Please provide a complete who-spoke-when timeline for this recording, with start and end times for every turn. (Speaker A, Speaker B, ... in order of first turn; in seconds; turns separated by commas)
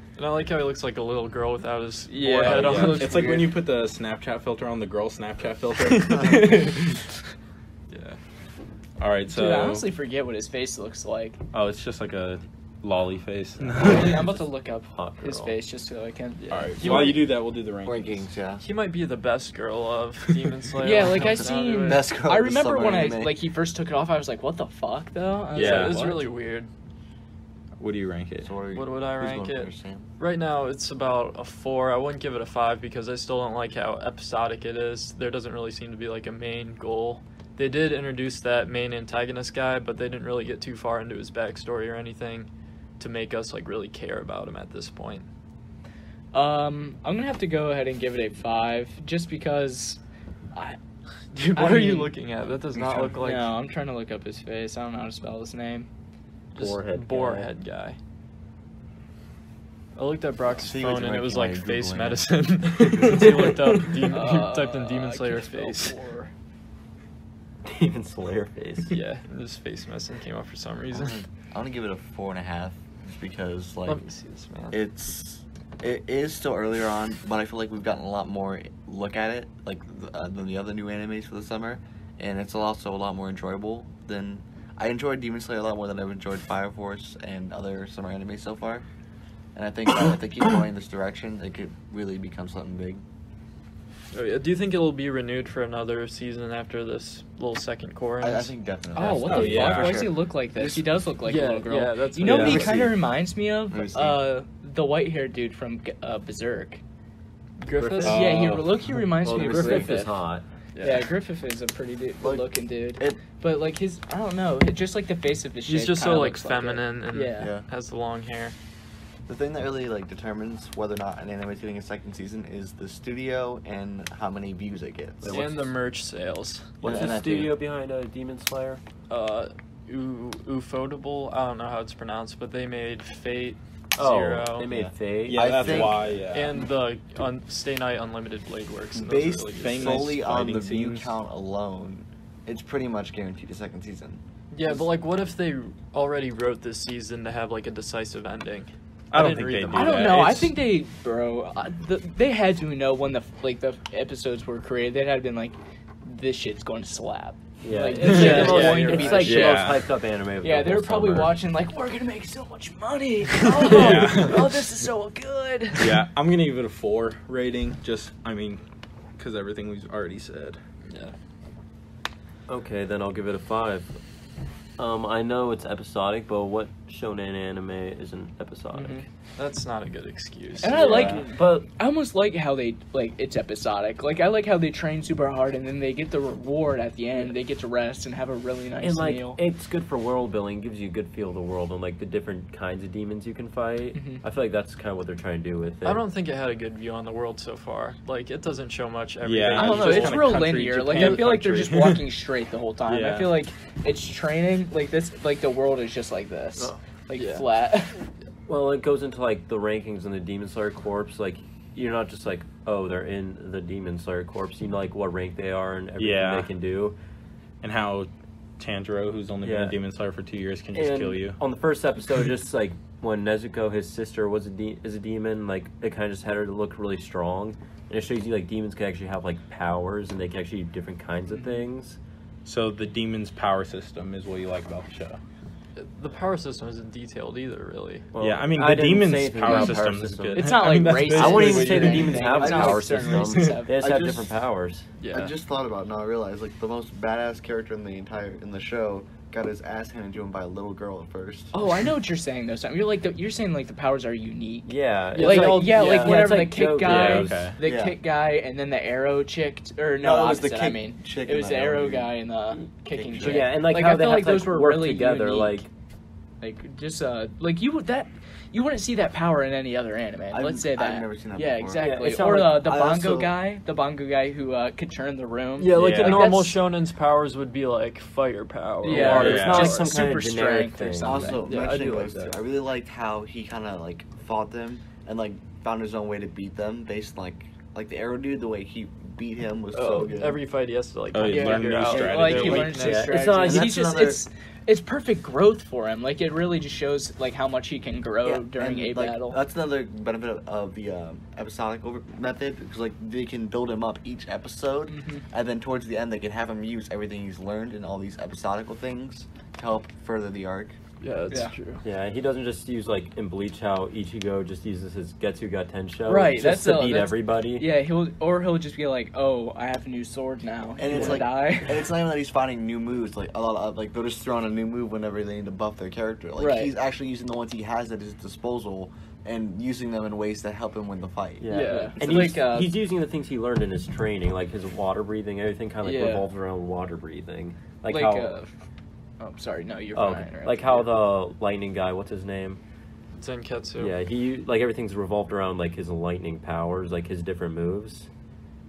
Speaker A: 0.2-3.3, Speaker B: 2.1-3.6, Speaker C: 2.3-7.1, Speaker D: 6.1-6.4, Speaker A: 7.9-8.2, Speaker C: 9.0-9.9, Speaker B: 9.3-11.4, Speaker C: 11.5-14.3, Speaker E: 13.6-15.6, Speaker B: 13.8-17.2, Speaker A: 16.4-17.2, Speaker C: 16.5-18.2, Speaker D: 17.8-18.6, Speaker A: 18.6-22.1, Speaker B: 20.8-26.3, Speaker D: 21.8-23.4, Speaker A: 25.5-26.7, Speaker C: 25.6-26.2, Speaker C: 27.8-28.5, Speaker D: 28.4-30.1, Speaker A: 28.7-42.5, Speaker A: 43.0-45.3, Speaker B: 46.3-50.0, Speaker A: 51.3-53.5, Speaker B: 51.5-52.1, Speaker D: 52.7-53.2, Speaker B: 53.2-55.9, Speaker E: 56.5-57.5, Speaker A: 56.5-58.0, Speaker A: 60.0-66.0, Speaker D: 60.6-62.3, Speaker D: 63.0-63.3, Speaker B: 64.1-66.3, Speaker E: 67.7-69.0, Speaker A: 68.9-71.2, Speaker D: 70.9-74.0, Speaker A: 73.9-74.8, Speaker D: 74.7-88.8, Speaker D: 89.5-93.0, Speaker A: 94.1-98.5, Speaker D: 98.2-100.9, Speaker B: 99.0-106.8, Speaker C: 99.1-100.1, Speaker A: 101.2-102.8, Speaker D: 102.2-103.0, Speaker C: 102.2-102.6, Speaker D: 103.7-104.2, Speaker A: 107.6-108.3, Speaker E: 107.8-108.4, Speaker B: 108.0-110.1, Speaker C: 108.1-108.7, Speaker E: 109.2-110.5, Speaker D: 109.4-109.9, Speaker A: 110.8-111.1, Speaker B: 110.8-117.5, Speaker D: 112.2-113.2, Speaker A: 115.7-118.5, Speaker D: 117.4-117.7, Speaker D: 119.3-125.4, Speaker E: 125.2-125.7, Speaker A: 125.3-127.1, Speaker D: 126.8-127.6, Speaker E: 126.8-128.8, Speaker A: 129.1-134.7, Speaker E: 134.0-136.0, Speaker D: 134.6-136.1, Speaker C: 135.3-136.6, Speaker A: 136.3-140.1, Speaker D: 138.9-144.2, Speaker C: 139.5-141.1, Speaker A: 144.5-150.3, Speaker C: 149.1-150.6, Speaker B: 149.7-159.7, Speaker E: 157.6-161.4, Speaker A: 157.9-159.4, Speaker C: 158.2-159.9, Speaker B: 160.4-166.0, Speaker C: 163.6-164.5, Speaker E: 163.7-164.0, Speaker C: 165.8-168.6, Speaker C: 169.2-170.6, Speaker E: 172.5-174.0, Speaker E: 174.8-179.1, Speaker B: 178.7-179.1, Speaker A: 179.4-181.2, Speaker E: 180.6-181.7, Speaker B: 180.6-189.4, Speaker E: 188.8-196.0, Speaker B: 193.9-194.2, Speaker A: 195.8-201.7, Speaker C: 199.2-202.1, Speaker B: 199.5-208.0, Speaker C: 202.9-203.4, Speaker A: 207.2-207.5, Speaker E: 208.5-217.0, Speaker C: 216.0-216.5, Speaker C: 217.6-221.4, Speaker E: 219.4-219.8, Speaker E: 220.8-232.0, Speaker C: 232.4-235.2, Speaker A: 235.8-238.1, Speaker E: 238.1-244.9, Speaker C: 238.2-243.6, Speaker B: 239.5-239.7, Speaker B: 240.3-243.8, Speaker D: 242.4-242.9, Speaker D: 243.8-244.3, Speaker A: 245.0-245.3, Speaker D: 245.1-251.5, Speaker B: 251.5-265.7, Speaker E: 254.7-257.5, Speaker A: 255.1-256.5, Speaker C: 256.8-257.6, Speaker D: 257.6-258.0, Speaker D: 260.0-262.1, Speaker D: 262.9-263.5, Speaker E: 263.2-265.7, Speaker B: 266.4-276.6, Speaker D: 270.3-273.3, Speaker E: 271.8-272.6, Speaker A: 275.6-279.4, Speaker C: 275.7-276.3, Speaker B: 278.8-282.0, Speaker E: 278.8-281.4, Speaker C: 278.9-279.9, Speaker D: 281.0-290.4, Speaker A: 289.7-293.2, Speaker C: 291.1-293.0, Speaker B: 291.3-299.4, Speaker E: 292.4-294.1, Speaker D: 293.1-294.2, Speaker D: 298.2-310.8, Speaker B: 304.9-305.2, Speaker A: 311.0-311.8, Speaker E: 311.8-317.7, Speaker B: 316.1-321.9, Speaker D: 320.8-332.4, Speaker B: 326.4-326.7, Speaker E: 331.4-338.4, Speaker B: 331.5-332.8, Speaker A: 331.5-331.9, Speaker B: 335.8-336.3, Speaker B: 337.9-338.6, Speaker B: 339.2-341.0, Speaker E: 339.9-342.6, Speaker A: 343.2-343.9, Speaker E: 343.8-348.1